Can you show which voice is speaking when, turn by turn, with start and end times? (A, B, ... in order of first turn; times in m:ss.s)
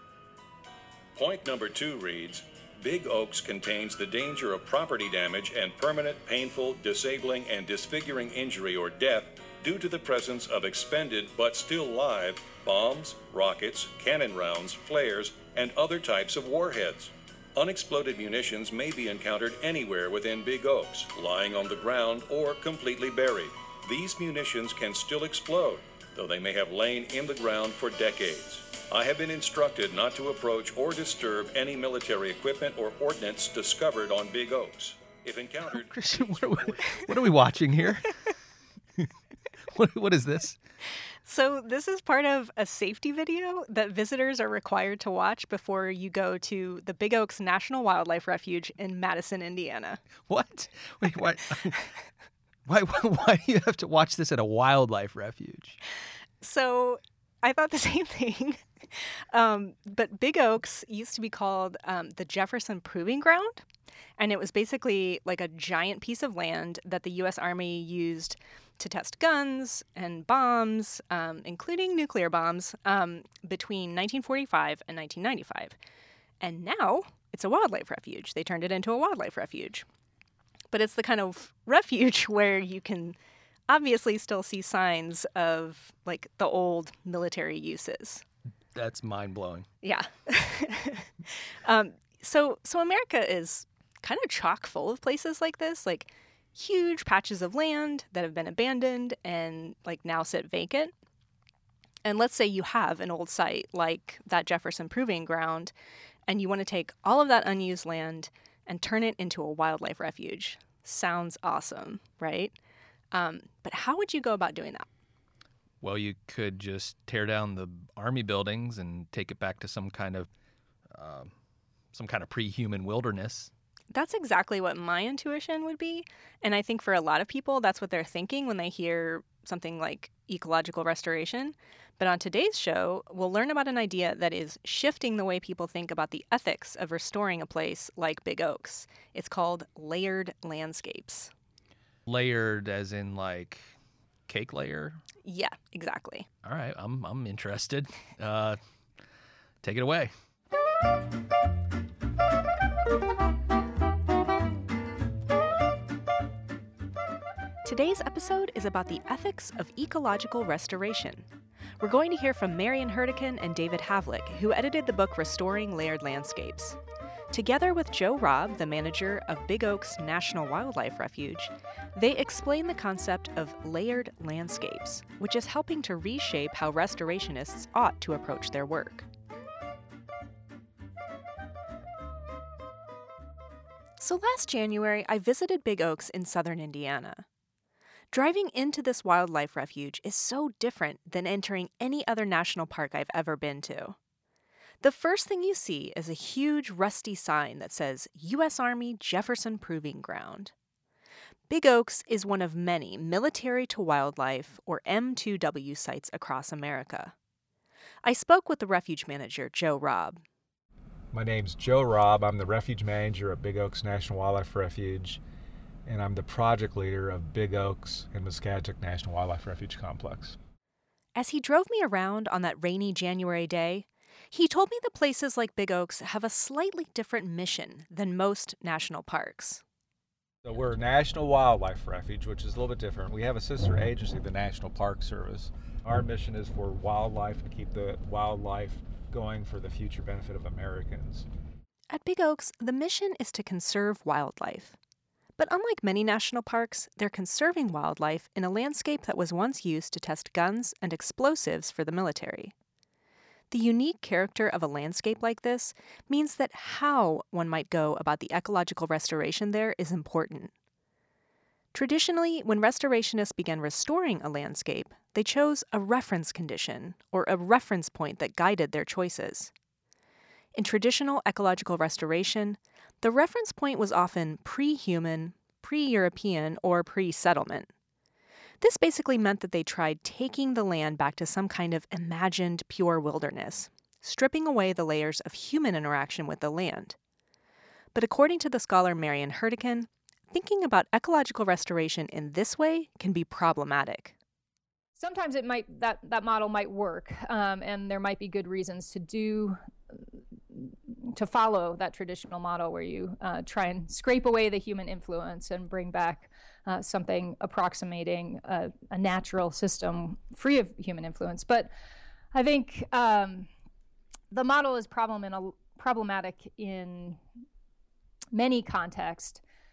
0:01.1-0:37.1 A
0:35.7-0:38.1 B
0:39.7-0:40.6 B
0:41.2-0:50.0 C
0:50.2-0:51.9 B
0:52.6-0:55.8 B
0:56.4-0:58.6 C
0:59.3-1:03.6 C
1:04.2-1:15.8 C
1:16.4-1:19.8 C
1:20.7-1:23.2 C
1:23.7-1:28.2 C
1:28.7-1:29.7 B
1:29.8-1:40.9 C
1:42.0-1:45.7 C
1:46.3-1:52.5 C
1:53.1-1:54.9 C
1:55.8-2:00.3 B
2:00.9-2:01.3 B
2:01.9-2:03.5 B
2:03.9-2:21.3 C
2:22.1-2:23.7 B
2:24.3-2:25.0 B
2:25.2-2:26.3 C
2:26.4-2:28.6 B
2:29.6-2:30.1 B
2:37.6-2:41.2 C
2:41.8-2:46.8 C
2:47.3-2:59.1 C
3:04.0-3:07.2 C
3:08.1-3:14.0 C
3:14.8-3:20.5 C
3:21.5-3:27.1 C
3:28.0-3:30.2 C
3:31.1-3:35.2 D
3:35.8-3:40.4 D
3:41.1-3:49.6 C
3:50.4-4:01.3 D
4:01.9-4:04.8 C
4:05.4-4:12.5 C
4:13.5-4:20.5 C
4:21.7-4:29.5 C
4:30.6-4:37.7 C
4:38.6-4:47.0 C
4:47.9-4:54.1 C
4:55.0-4:59.6 E
5:00.5-5:11.7 E
5:12.3-5:13.5 E
5:14.3-5:17.2 E
5:18.3-5:19.4 E